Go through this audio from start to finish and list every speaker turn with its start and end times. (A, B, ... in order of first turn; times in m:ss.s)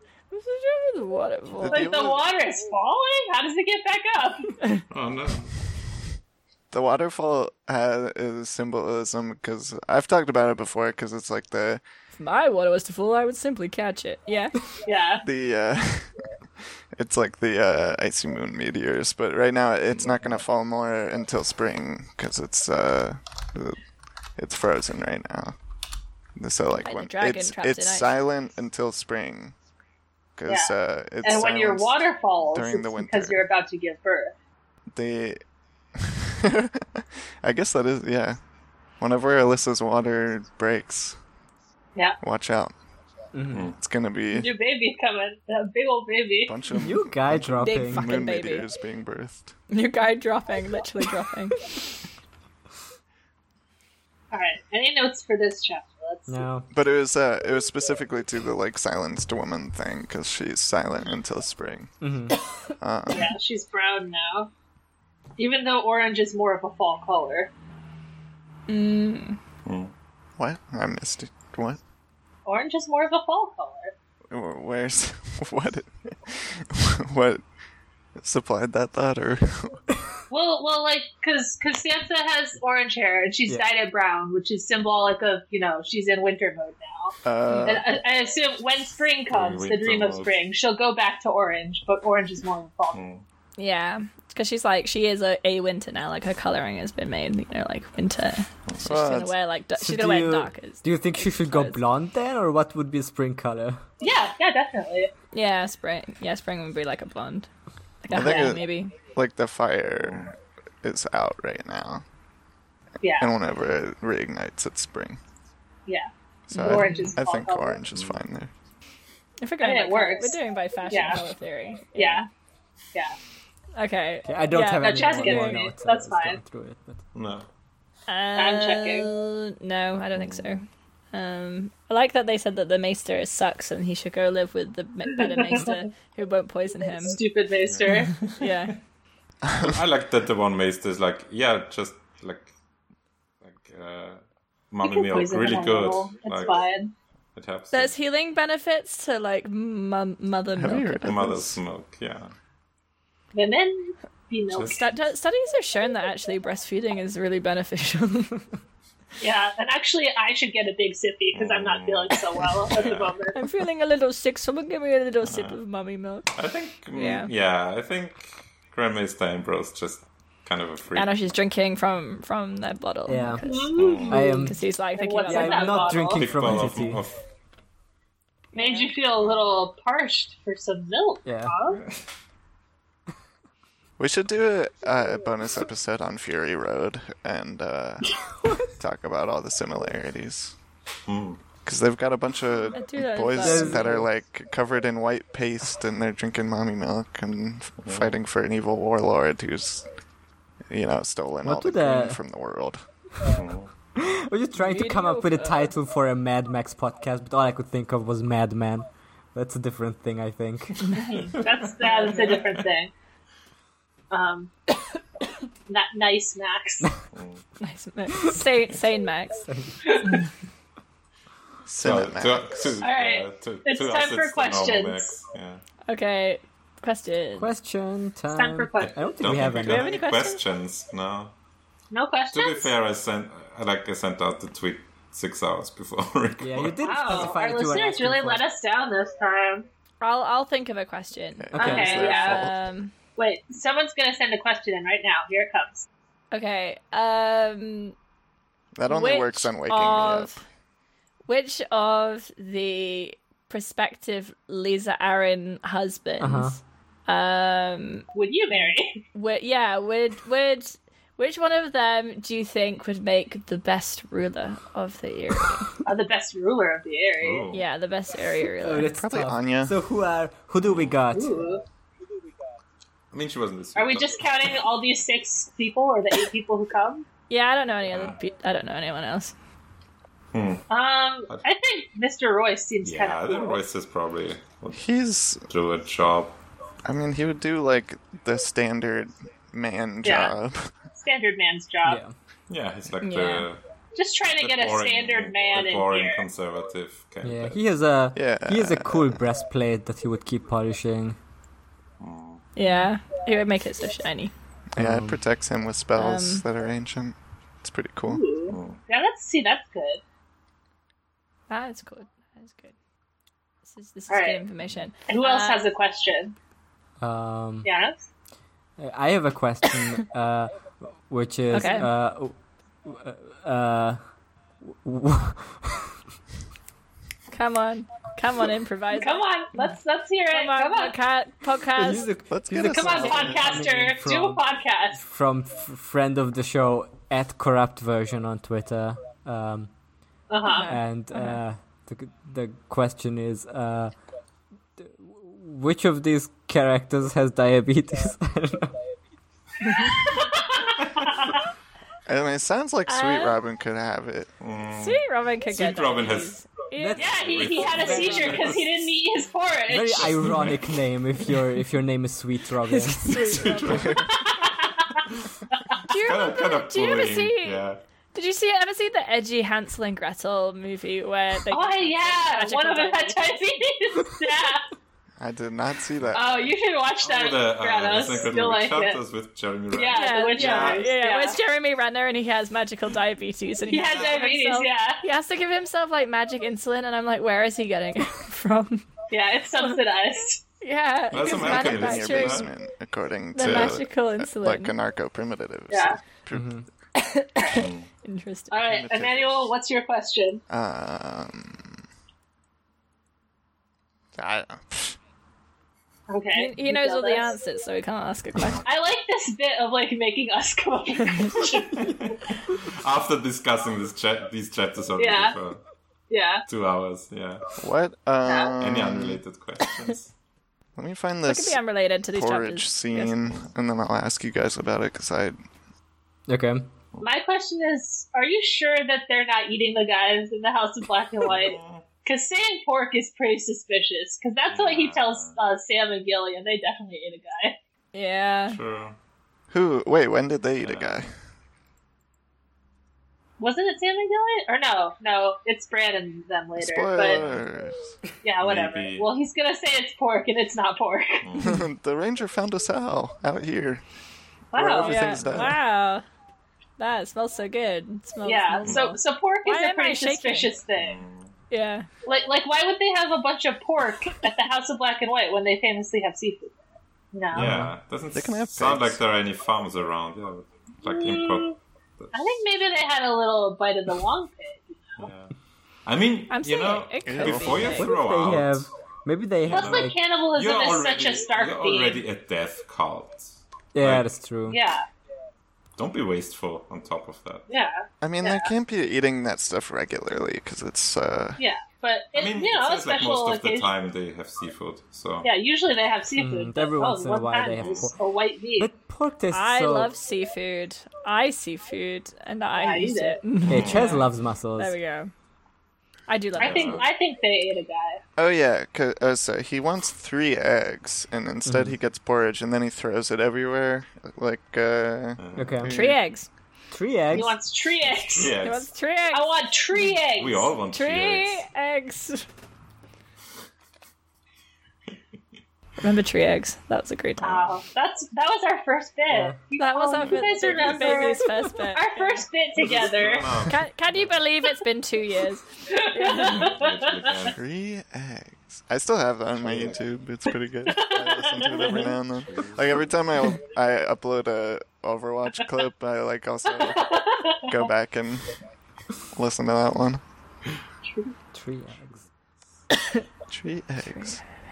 0:00.3-0:01.9 A
0:01.6-0:02.3 B
0:01.6-0:04.5 C
0:04.9-0:05.6 D
0:06.7-0:11.8 B
0:12.2-0:14.5 A
0:14.8-0:15.2 C
0:15.2-0:16.1 B
0:16.9-0:23.8 B
0:24.4-0:25.6 B
0:26.4-0:29.5 B
0:26.8-0:28.2 A
0:30.4-0:33.4 B
0:30.5-0:34.3 C
0:34.9-0:35.4 B
0:35.9-0:38.4 B
0:39.0-0:41.2 B
0:42.2-0:42.7 B
0:43.3-0:43.7 E
0:43.7-0:44.5 B
0:44.3-0:46.6 C
0:46.4-0:49.5 B
0:46.8-0:48.2 E
0:47.6-0:48.7 A
0:49.7-0:51.6 A
0:54.3-0:56.5 C
0:56.3-0:56.7 E
0:56.7-1:01.9 B
1:02.0-1:02.4 E
1:02.8-1:03.3 B
1:03.1-1:04.5 C
1:05.4-1:07.5 C
1:08.7-1:09.4 A
1:09.6-1:09.9 D
1:10.4-1:11.8 B
1:12.4-1:13.9 C
1:14.3-1:17.4 B
1:18.2-1:19.8 B
1:20.3-1:33.0 C
1:27.2-1:28.0 B
1:27.5-1:27.8 A
1:29.3-1:30.4 D
1:32.9-1:33.2 D
1:33.6-1:41.8 A
1:38.8-1:39.3 B
1:39.8-1:43.8 E
1:44.0-1:45.1 C
1:45.3-1:47.5 A
1:48.0-1:48.9 A
1:48.1-1:52.0 B
1:48.2-1:48.5 C
1:50.0-1:50.3 D
1:53.0-1:53.3 C
1:53.2-1:55.2 B
1:55.9-1:57.8 C
1:56.5-1:57.1 A
1:56.5-1:58.5 B
1:57.9-1:58.2 D
1:59.4-2:02.2 A
1:59.6-2:01.2 C
2:01.9-2:02.3 C
2:03.8-2:05.7 A
2:04.2-2:07.0 E
2:04.8-2:06.4 C
2:07.1-2:07.5 D
2:08.1-2:17.2 A
2:08.4-2:09.1 C
2:10.1-2:10.5 D
2:15.1-2:15.8 C
2:17.0-2:18.3 C
2:17.6-2:18.4 D
2:17.9-2:18.8 A
2:19.4-2:19.8 B
2:19.6-2:22.5 D
2:23.4-2:26.7 D
2:24.8-2:26.9 C
2:27.3-2:27.9 D
2:27.7-2:31.1 A
2:30.5-2:31.6 B
2:31.0-2:32.3 D
2:33.3-2:34.9 C
2:34.6-2:38.5 A
2:39.2-2:43.4 C
2:41.3-2:43.1 D
2:43.3-2:46.3 A
2:45.2-2:45.6 D
2:46.3-2:51.1 D
2:46.9-2:47.3 A
2:50.9-2:56.0 A
2:53.1-2:53.4 E
2:53.4-2:54.3 C
2:53.8-2:54.1 D
2:54.0-2:54.6 E
2:55.0-2:56.2 C
2:55.2-2:57.0 E
2:56.1-2:57.2 D
2:58.5-2:58.9 A
2:58.5-3:01.8 C
2:59.2-2:59.6 D
3:01.2-3:01.5 E
3:01.7-3:02.0 D
3:04.0-3:08.2 B
3:08.8-3:10.5 B
3:11.1-3:11.4 D
3:11.6-3:19.9 B
3:12.7-3:14.0 A
3:13.4-3:14.1 E
3:17.8-3:18.1 D
3:20.7-3:22.8 B
3:21.4-3:22.2 E
3:23.2-3:23.7 D
3:24.0-3:31.0 E
3:24.6-3:25.7 A
3:30.8-3:31.2 A
3:31.0-3:32.9 C
3:31.8-3:32.4 A
3:32.0-3:32.5 D
3:34.1-3:34.5 C
3:35.7-3:36.9 C
3:37.1-3:37.4 D
3:37.6-3:39.4 A
3:39.4-3:39.9 E
3:41.6-3:42.7 B
3:41.8-3:45.6 D
3:42.8-3:45.1 C
3:45.9-3:47.5 A
3:47.4-3:50.0 E
3:48.3-3:49.2 C
3:48.8-3:51.3 D
3:49.5-3:50.4 A
3:51.9-3:52.7 C
3:52.3-3:57.3 D
3:56.4-3:58.4 E
3:56.8-3:59.7 C
4:00.0-4:02.9 A
4:01.4-4:02.5 B
4:01.6-4:02.0 E
4:01.6-4:02.4 C
4:03.2-4:05.9 C
4:06.3-4:07.9 A
4:08.7-4:10.4 B
4:08.9-4:10.4 A
4:11.3-4:18.0 A
4:16.2-4:16.6 E
4:18.1-4:19.0 C
4:19.1-4:25.7 A
4:25.8-4:27.4 C
4:27.2-4:27.6 D
4:27.5-4:28.9 A
4:28.6-4:31.4 E
4:29.0-4:29.7 B
4:30.6-4:31.0 D
4:31.1-4:31.6 C
4:33.1-4:34.7 D
4:33.8-4:37.0 C
4:37.3-4:39.3 A
4:37.9-4:38.2 D
4:40.3-4:40.7 D
4:40.7-4:43.6 C
4:42.8-4:45.0 D
4:44.7-4:45.4 B
4:45.5-4:46.4 D
4:46.9-4:50.7 B
4:50.0-4:50.3 C
4:50.9-4:52.0 C
4:51.8-4:52.1 E
4:52.5-4:53.6 D
4:53.0-4:53.5 A
4:53.9-4:56.2 C
4:54.3-4:57.6 D
4:57.2-5:01.2 E
4:58.1-4:59.2 B
5:02.0-5:02.5 D
5:02.6-5:04.3 A
5:04.8-5:08.2 B
5:04.8-5:05.2 E
5:06.0-5:06.4 A
5:08.0-5:10.0 C
5:08.5-5:08.8 D
5:11.5-5:12.7 A
5:13.7-5:15.6 A
5:14.1-5:14.4 C
5:15.1-5:16.3 C
5:17.0-5:17.7 E
5:17.6-5:18.0 C
5:18.8-5:24.0 E
5:21.5-5:21.9 A
5:24.7-5:25.8 E
5:27.3-5:29.3 A
5:28.9-5:30.9 C
5:30.3-5:32.1 A
5:31.7-5:34.4 E
5:32.3-5:33.6 B
5:32.7-5:35.0 C
5:35.0-5:39.7 E
5:40.3-5:40.7 C
5:40.4-5:41.4 A
5:40.7-5:44.0 E
5:44.8-5:48.7 E
5:49.8-5:51.3 C
5:52.1-5:54.3 B
5:52.9-5:53.4 A
5:54.4-5:56.4 D
5:54.7-5:58.5 A
5:56.8-5:58.3 E
5:57.0-6:00.5 C
5:57.0-5:58.9 D
5:59.7-6:03.5 E
6:00.3-6:00.6 D
6:02.7-6:04.0 A
6:03.1-6:04.3 D
6:04.1-6:05.0 C
6:05.9-6:07.6 A
6:06.0-6:07.8 D
6:08.1-6:13.4 A
6:11.5-6:14.6 C
6:15.2-6:16.5 B
6:16.1-6:19.0 C
6:17.0-6:20.8 D
6:19.7-6:21.4 C
6:19.9-6:28.8 A
6:23.6-6:25.0 C
6:23.8-6:24.2 D
6:29.1-6:30.4 C
6:30.6-6:32.5 A
6:31.1-6:32.5 D
6:31.1-6:36.6 B
6:33.3-6:34.7 A
6:35.7-6:36.0 C
6:36.3-6:36.6 E
6:37.0-6:38.6 A
6:37.5-6:37.9 D
6:38.5-6:40.4 C
6:38.6-6:39.5 B
6:40.5-6:41.8 B
6:44.1-6:45.0 B
6:46.1-6:47.3 C
6:46.3-6:48.6 A
6:48.6-6:51.9 C
6:51.8-6:55.6 D
6:55.0-6:55.3 C
6:56.1-6:56.4 C
6:56.5-6:57.5 D
6:57.6-6:59.2 B
6:58.2-6:58.5 C
6:58.6-7:00.1 D
7:00.8-7:05.4 B
7:01.3-7:03.2 A
7:06.3-7:06.6 E
7:07.0-7:17.6 C
7:11.2-7:11.8 D
7:14.5-7:15.4 D
7:17.9-7:18.6 A
7:18.5-7:19.0 D
7:19.5-7:21.1 B
7:20.6-7:21.1 D
7:23.4-7:27.2 C
7:26.6-7:27.9 B
7:27.1-7:27.4 D
7:28.2-7:31.2 C
7:28.4-7:29.1 D
7:31.2-7:31.6 D
7:31.4-7:33.8 B
7:34.5-7:35.1 C
7:34.5-7:35.6 B
7:34.8-7:36.0 A
7:36.8-7:40.6 A
7:38.2-7:41.0 C
7:40.8-7:41.3 D
7:41.5-7:41.9 A
7:42.0-7:46.6 C
7:47.1-7:47.6 C
7:47.3-7:52.1 D
7:47.3-7:47.7 E
7:48.1-7:49.0 B
7:50.8-7:51.5 C
7:52.1-7:54.8 C
7:55.0-7:55.3 D
7:55.8-7:58.7 D
7:56.3-7:57.9 A
7:57.0-7:57.7 B
7:57.7-8:00.0 E
7:59.4-8:04.1 D
7:59.5-8:02.0 C
8:03.7-8:04.6 E
8:04.5-8:04.8 C
8:05.8-8:07.5 D
8:07.5-8:08.5 C
8:08.0-8:11.4 B
8:11.4-8:13.7 C
8:12.1-8:15.3 D
8:15.2-8:18.7 C
8:16.2-8:17.9 E
8:17.6-8:17.9 D
8:18.6-8:19.9 E
8:19.3-8:25.1 A
8:22.6-8:23.2 C
8:23.5-8:24.7 E
8:23.5-8:24.0 D
8:26.1-8:26.8 A
8:26.4-8:28.0 C
8:26.4-8:26.9 D
8:28.2-8:36.0 B
8:31.4-8:31.8 E
8:35.2-8:35.7 D
8:35.4-8:35.8 E
8:35.7-8:36.3 A
8:36.7-8:37.4 E
8:37.1-8:38.3 C
8:37.8-8:38.7 D
8:38.4-8:39.4 A
8:39.1-8:40.5 C
8:40.1-8:41.4 D
8:40.7-8:42.2 A
8:45.8-8:47.5 A
8:47.2-8:53.4 C
8:49.1-8:49.4 E
8:49.6-8:52.3 A
8:50.0-8:51.2 D
8:52.5-8:54.1 D
8:53.5-8:56.5 A
8:55.7-8:57.3 C
8:56.2-8:57.4 D
8:57.3-9:08.3 B
8:59.4-8:59.8 D
9:00.7-9:01.9 C
9:02.2-9:02.8 D
9:06.6-9:07.6 C
9:09.1-9:10.0 B
9:10.9-9:11.1 C
9:11.3-9:12.1 E
9:13.3-9:14.2 B